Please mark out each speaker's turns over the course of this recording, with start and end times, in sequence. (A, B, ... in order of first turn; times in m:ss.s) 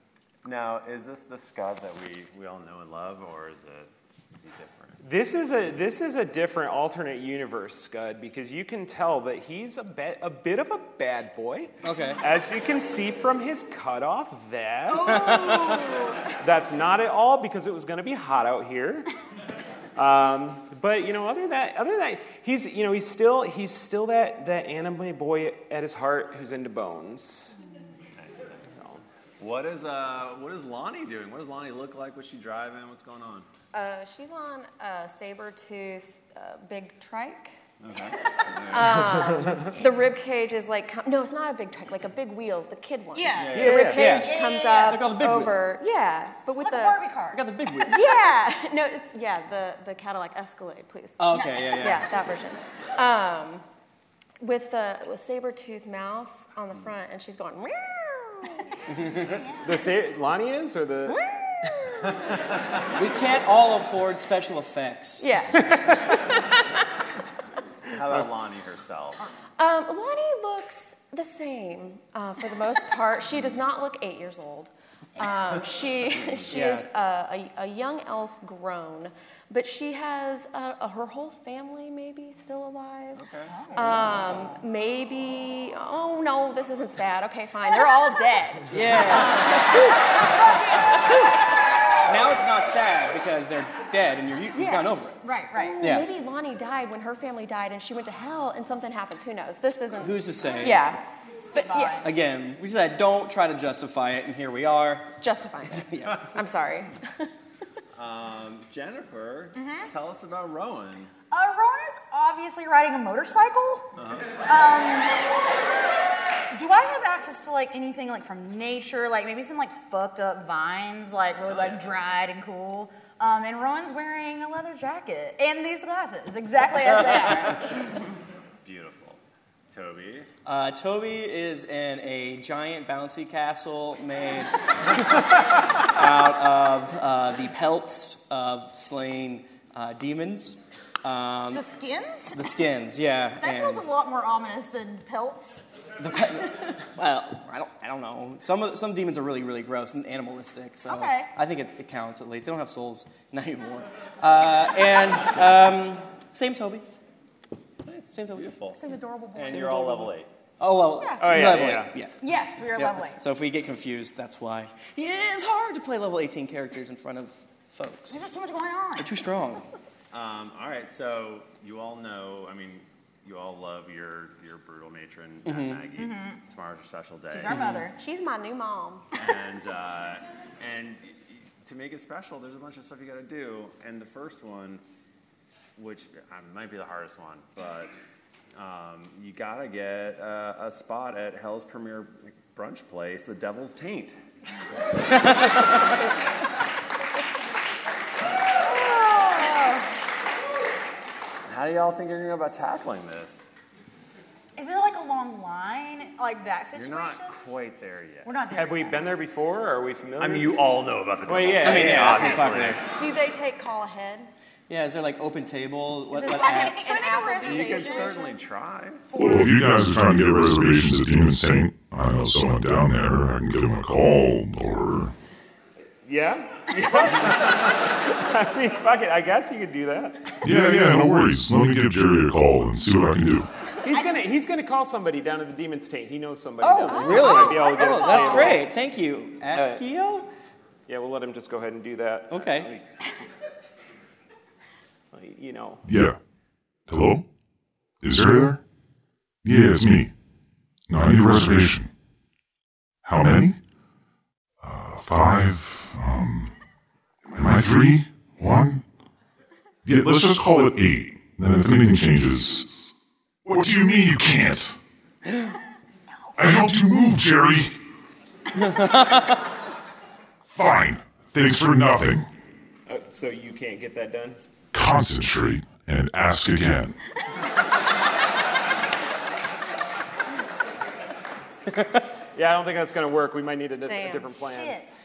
0:00.4-0:05.0 A
0:05.0-0:19.1 B
0:11.8-0:12.2 C
0:15.0-0:15.8 C
0:15.1-0:16.1 D
0:20.0-0:27.6 B
0:28.2-0:28.7 A
0:28.7-0:29.0 B
0:29.4-0:33.5 A
0:33.7-0:37.5 E
0:37.8-0:39.1 A
0:38.7-0:47.1 E
0:39.3-0:39.6 B
0:43.1-0:45.0 D
0:43.4-0:43.8 A
0:43.5-0:44.1 B
0:43.9-0:45.6 C
0:46.6-0:47.4 D
0:47.3-0:48.1 C
0:47.8-0:53.6 E
0:51.2-0:52.1 C
0:54.4-0:58.9 E
0:58.9-0:59.3 C
0:59.2-0:59.7 D
0:59.6-1:01.2 B
1:01.1-1:02.3 E
1:03.0-1:05.4 C
1:05.2-1:06.6 E
1:07.9-1:09.2 A
1:09.6-1:29.8 E
1:16.5-1:16.9 C
1:23.2-1:23.6 A
1:23.6-1:24.1 D
1:28.7-1:30.3 C
1:30.9-1:31.4 C
1:32.1-1:35.2 C
1:34.5-1:35.0 E
1:35.2-1:35.8 D
1:35.5-1:42.1 E
1:35.8-1:36.1 C
1:40.0-1:40.8 C
1:41.4-1:42.1 D
1:42.0-1:45.2 C
1:45.2-1:47.3 E
1:45.7-1:46.3 C
1:48.0-1:51.1 A
1:49.6-1:49.9 D
1:51.3-1:53.9 D
1:54.0-1:54.4 A
1:54.4-1:55.1 D
1:56.5-2:07.7 D
2:01.5-2:01.9 A
2:08.6-2:09.2 A
2:09.7-2:10.3 A
2:10.4-2:15.2 C
2:15.8-2:21.7 C
2:21.5-2:22.5 D
2:22.3-2:23.9 C
2:23.4-2:25.6 D
2:26.0-2:36.9 C
2:30.8-2:31.3 D
2:37.9-2:40.3 A
2:38.1-2:38.5 C
2:38.7-2:39.8 D
2:39.4-2:42.2 C
2:41.2-2:42.0 B
2:42.2-2:43.2 D
2:42.7-2:48.2 C
2:48.1-2:49.1 D
2:49.0-2:49.7 C
2:50.1-2:57.7 A
2:55.4-2:55.9 C
2:56.0-2:56.4 D
2:57.3-2:58.0 D
2:57.5-2:57.8 C
2:57.9-2:59.0 E
2:59.2-3:04.8 A
3:05.8-3:07.9 A
3:08.6-3:14.2 A
3:18.6-3:19.8 D
3:21.5-3:23.5 A
3:24.6-3:27.4 D
3:26.7-3:28.5 A
3:28.2-3:29.1 D
3:28.5-3:32.4 B
3:30.2-3:32.8 A
3:31.6-3:32.8 C
3:32.2-3:34.3 E
3:34.7-3:37.1 C
3:36.1-3:38.3 E
3:36.2-3:38.3 D
3:37.4-3:39.1 A
3:39.1-3:39.6 D
3:39.1-3:45.1 F
3:46.0-3:50.4 B
3:50.4-3:53.5 F
3:53.8-3:58.7 B
3:56.6-3:58.6 D
3:56.9-3:57.3 E
3:56.9-4:00.3 C
3:59.5-3:59.8 B
4:00.9-4:02.8 B
4:02.3-4:02.7 C
4:05.1-4:05.8 B
4:05.8-4:06.2 F
4:06.9-4:07.3 F
4:08.0-4:08.6 F
4:09.4-4:10.1 F
4:10.9-4:11.9 F
4:13.0-4:13.6 F
4:14.6-4:16.5 F
4:17.3-4:18.8 F
4:19.8-4:22.9 F
4:23.4-4:24.8 F
4:26.4-4:27.8 F
4:28.6-4:29.4 C
4:30.5-4:32.3 F
4:32.9-4:34.4 B
4:34.7-4:37.0 F
4:42.4-4:44.8 B
4:43.9-4:44.4 E
4:44.4-4:44.9 D